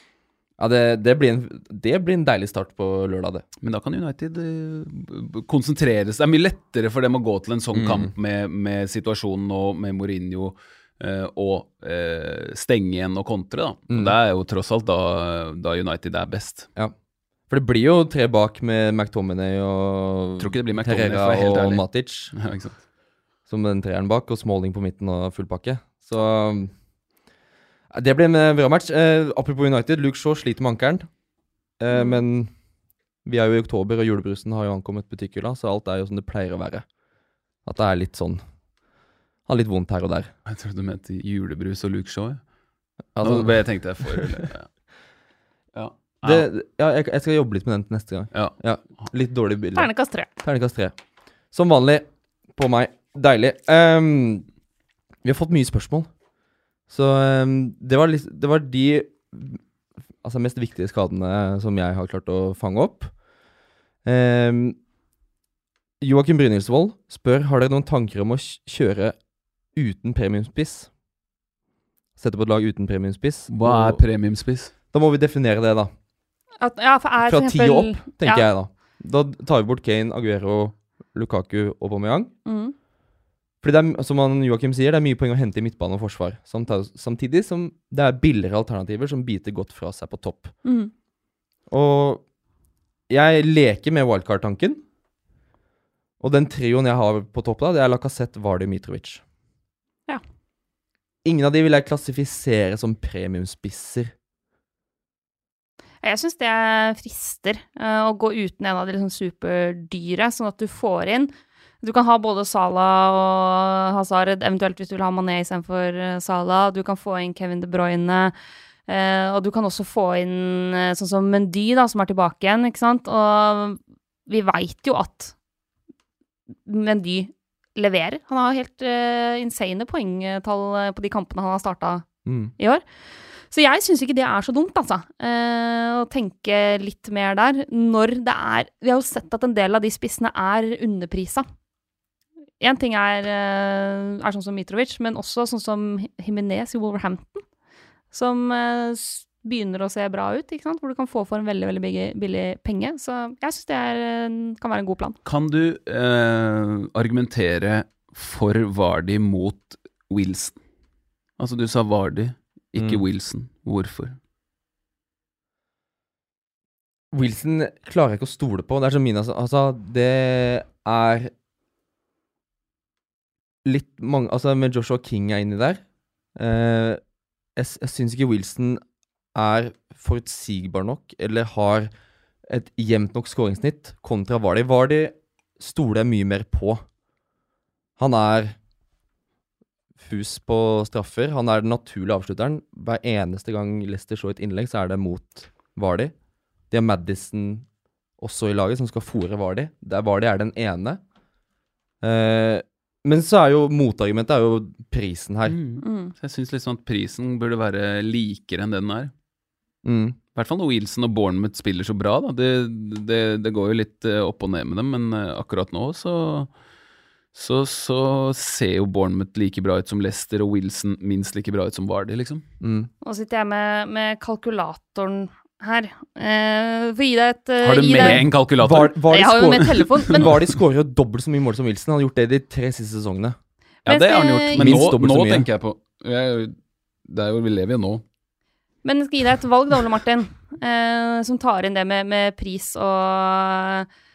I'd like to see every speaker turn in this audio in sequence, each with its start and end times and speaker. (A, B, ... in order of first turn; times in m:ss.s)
0:00.6-0:03.4 A
0:03.6-0:16.7 B
0:07.7-0:08.1 A
0:17.5-0:22.3 A
0:20.4-0:22.8 B
0:23.5-0:26.7 A
0:27.9-0:31.1 A
0:31.8-0:32.5 A
0:31.9-0:32.2 C
0:33.2-0:36.9 A
0:37.6-0:38.4 A
0:39.5-0:40.3 A
0:40.5-0:42.4 B
0:43.2-0:44.5 A
0:43.2-0:44.7 B
0:45.7-0:46.5 B
0:46.2-0:51.0 A
0:48.3-0:49.0 B
0:49.8-0:50.3 C
0:51.5-0:54.5 A
0:55.2-0:56.1 A
0:56.9-0:59.6 A
1:00.2-1:03.1 A
1:04.0-1:04.8 A
1:06.0-1:09.2 A
1:09.8-1:10.9 A
1:12.2-1:14.0 A
1:13.5-1:14.7 B
1:14.9-1:15.9 A
1:16.6-1:18.5 C
1:17.2-1:22.3 A
1:22.5-1:22.7 C
1:23.6-1:30.5 A
1:30.6-1:30.9 C
1:31.7-1:32.2 A
1:33.1-1:34.8 A
1:36.2-1:39.2 A
1:41.2-1:44.1 A
1:46.0-1:51.3 C
1:51.8-1:58.3 C
1:58.9-2:05.4 C
2:06.7-2:12.1 C
2:12.3-2:12.5 A
2:12.6-2:12.8 C
2:13.5-2:21.4 C
2:22.6-2:27.4 C
2:28.1-2:35.2 C
2:35.2-2:40.6 B
2:41.4-2:44.2 B
2:47.1-2:51.3 A
2:53.6-2:55.8 A
2:56.4-2:57.0 A
2:57.6-2:58.8 A
2:59.3-3:01.9 A
3:02.5-3:06.8 A
3:08.0-3:08.6 A
3:10.0-3:16.1 A
3:16.7-3:17.7 A
3:18.2-3:21.0 A
3:22.0-3:25.6 A
3:25.5-3:29.1 B
3:25.8-3:26.1 C
3:29.8-3:30.2 A
3:30.4-3:36.5 B
3:37.3-3:42.4 B
3:42.6-3:42.9 A
3:43.0-3:48.2 C
3:47.6-3:49.0 B
3:48.0-3:53.4 A
3:49.1-3:50.3 C
3:50.1-3:50.5 B
3:53.9-3:58.0 B
3:53.9-3:54.8 C
3:54.6-3:55.5 A
3:58.8-4:03.9 C